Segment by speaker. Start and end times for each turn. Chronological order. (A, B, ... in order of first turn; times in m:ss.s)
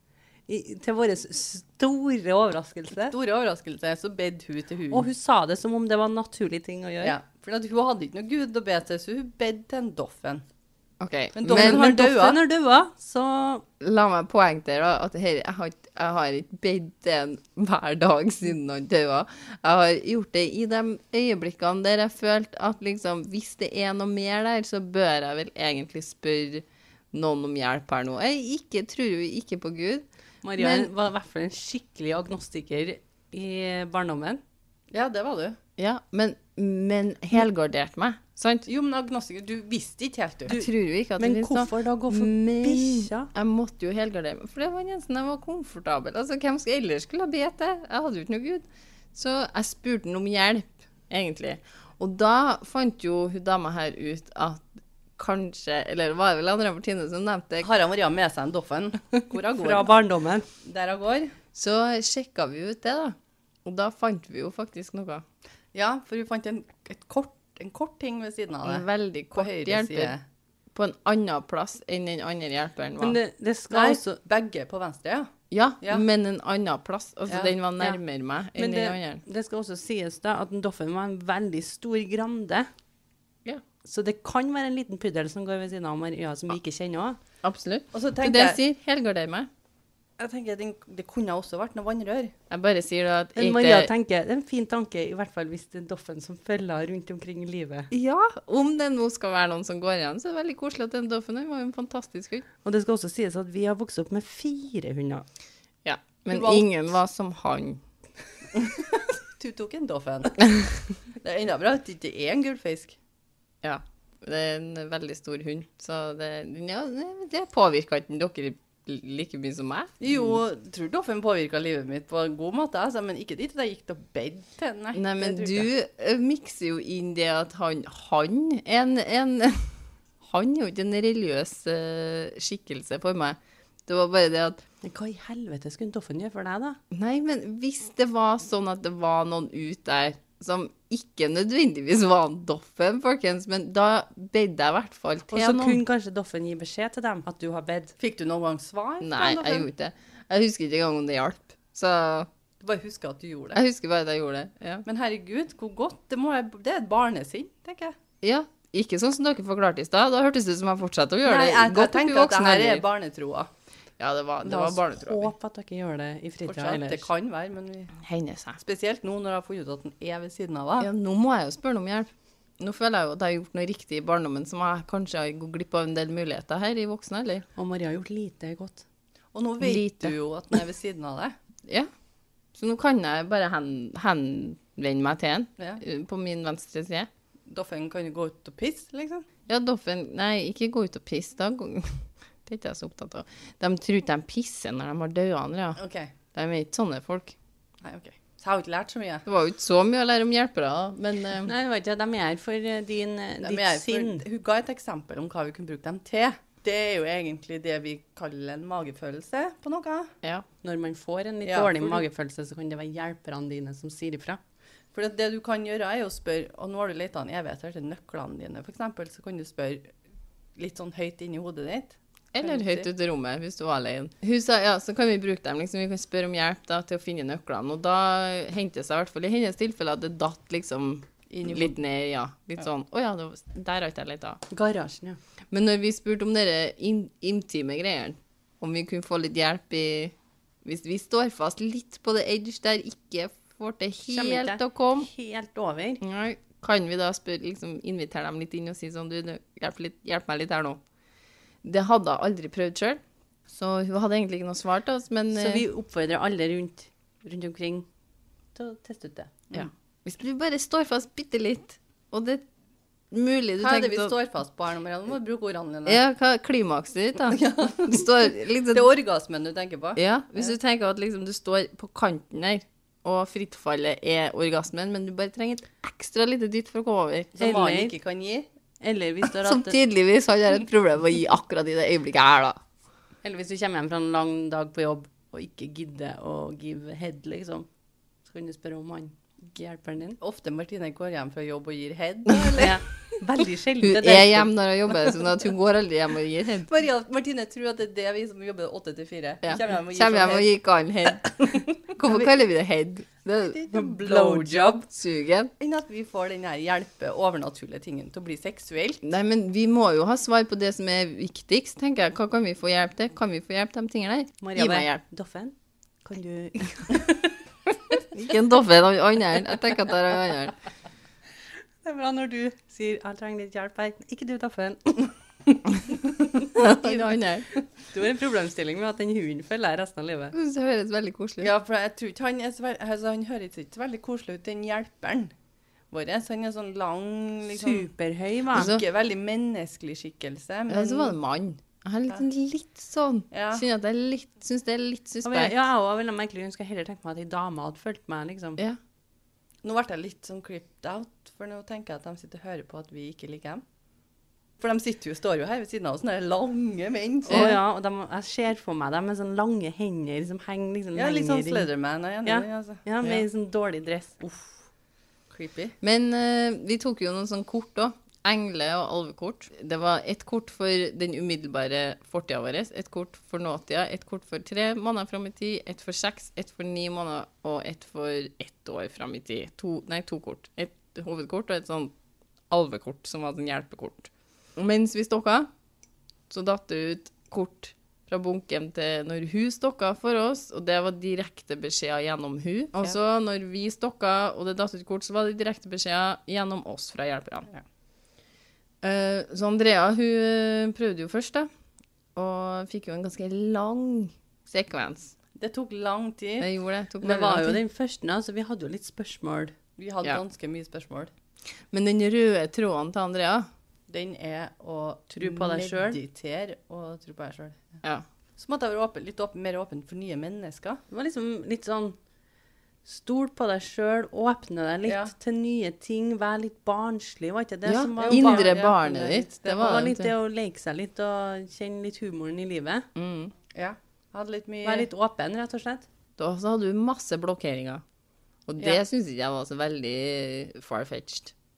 0:00.5-0:03.1 A
0:03.1-0:05.1 B
0:04.9-0:07.2 A
0:07.0-0:10.4 B
0:11.0-0:11.9 C
0:11.4-0:12.4 B
0:11.5-0:13.6 A
0:13.8-0:30.0 C
0:30.4-0:34.4 A
0:30.6-0:30.9 C
0:34.9-0:35.6 B
0:35.8-0:38.7 C
0:38.7-0:40.6 B
0:40.5-0:43.3 A
0:40.5-0:57.7 C
0:57.6-1:00.0 B
0:59.5-1:00.5 A
1:00.6-1:01.3 B
1:01.5-1:05.2 C
1:05.7-1:10.2 B
1:08.6-1:10.1 C
1:10.7-1:13.2 C
1:13.0-1:14.2 A
1:13.7-1:15.3 B
1:15.5-1:19.2 C
1:17.3-1:17.5 B
1:18.6-1:22.7 A
1:23.8-1:27.2 A
1:27.4-1:29.5 C
1:27.9-1:28.6 B
1:30.2-1:32.3 B
1:32.5-1:33.9 C
1:33.3-1:37.9 A
1:37.9-1:42.4 C
1:42.6-1:45.2 A
1:45.8-1:47.8 C
1:46.3-1:46.7 B
1:48.5-1:50.6 B
1:51.2-1:53.0 B
1:53.6-2:00.3 C
2:00.0-2:05.7 B
2:04.9-2:14.6 C
2:14.8-2:16.8 A
2:16.9-2:25.8 C
2:25.3-2:27.9 A
2:28.0-2:29.7 B
2:29.0-2:32.3 C
2:32.6-2:33.6 B
2:33.5-2:34.8 C
2:34.8-2:38.0 B
2:38.2-2:42.8 C
2:41.2-2:43.5 B
2:44.0-2:45.3 C
2:44.4-2:47.1 A
2:46.4-2:48.0 B
2:48.0-2:48.6 C
2:48.6-2:50.9 B
2:50.8-2:57.4 C
2:57.6-2:58.8 A
2:59.3-3:01.3 B
2:59.6-3:00.1 C
3:02.5-3:07.1 C
3:07.5-3:09.3 B
3:09.5-3:15.8 C
3:15.8-3:16.1 B
3:16.3-3:17.4 C
3:17.8-3:19.2 B
3:19.2-3:21.5 C
3:21.4-3:24.2 A
3:23.4-3:30.1 B
3:30.6-3:34.4 A
3:31.4-3:32.0 B
3:34.9-3:39.9 B
3:40.6-3:42.9 B
3:42.3-3:54.4 C
3:51.3-3:51.7 B
3:54.5-3:55.2 A
3:55.5-4:05.1 C
4:04.1-4:06.0 A
4:06.0-4:10.8 C
4:11.6-4:15.6 C
4:15.3-4:17.8 A
4:18.6-4:19.3 A
4:19.5-4:22.4 C
4:23.1-4:24.2 C
4:23.6-4:26.0 B
4:25.8-4:28.9 C
4:27.3-4:28.1 B
4:28.7-4:30.0 B
4:30.0-4:37.3 C
4:37.3-4:38.5 B
4:37.4-4:37.9 A
4:38.8-4:39.8 A
4:39.4-4:42.6 C
4:43.2-4:47.7 A
4:48.2-4:50.2 A
4:50.2-4:52.8 B
4:52.5-4:54.5 A
4:53.8-4:56.7 C
4:56.7-5:00.5 B
4:59.4-5:03.6 C
5:01.4-5:02.3 B
5:03.4-5:04.8 B
5:03.7-5:04.8 A
5:04.7-5:05.5 C
5:05.6-5:09.0 B
5:09.0-5:15.0 C
5:14.4-5:15.5 A
5:16.0-5:17.3 A
5:18.1-5:20.5 C
5:21.8-5:25.1 A
5:25.9-5:27.5 C
5:27.9-5:30.3 A
5:30.3-5:31.5 C
5:31.4-5:35.3 B
5:35.9-5:37.9 B
5:37.5-5:38.7 A
5:38.5-5:41.2 B
5:38.5-5:38.8 C
5:40.7-5:45.5 C
5:43.3-5:43.6 B
5:45.2-5:48.6 A
5:49.6-5:53.6 B
5:54.6-5:57.5 B
5:57.2-6:01.7 A
5:57.3-5:57.6 C
6:00.9-6:02.8 B
6:02.2-6:04.4 A
6:05.3-6:05.7 B
6:05.8-6:21.9 C
6:22.5-6:25.5 C
6:26.3-6:37.5 C
6:38.8-6:41.5 C
6:42.1-6:45.1 C
6:45.4-6:46.5 B
6:46.4-6:47.6 C
6:47.0-6:49.5 A
6:49.8-6:51.1 B
6:51.7-6:53.5 C
6:53.9-6:57.8 B
6:55.2-6:56.0 A
6:58.4-7:00.8 B
7:00.9-7:02.0 A
7:02.8-7:08.6 A
7:04.8-7:05.1 B
7:07.6-7:10.1 C
7:07.9-7:09.8 B
7:09.5-7:12.9 A
7:12.9-7:13.3 C
7:13.5-7:14.9 B
7:14.6-7:15.8 A
7:16.2-7:17.8 C
7:18.5-7:21.3 C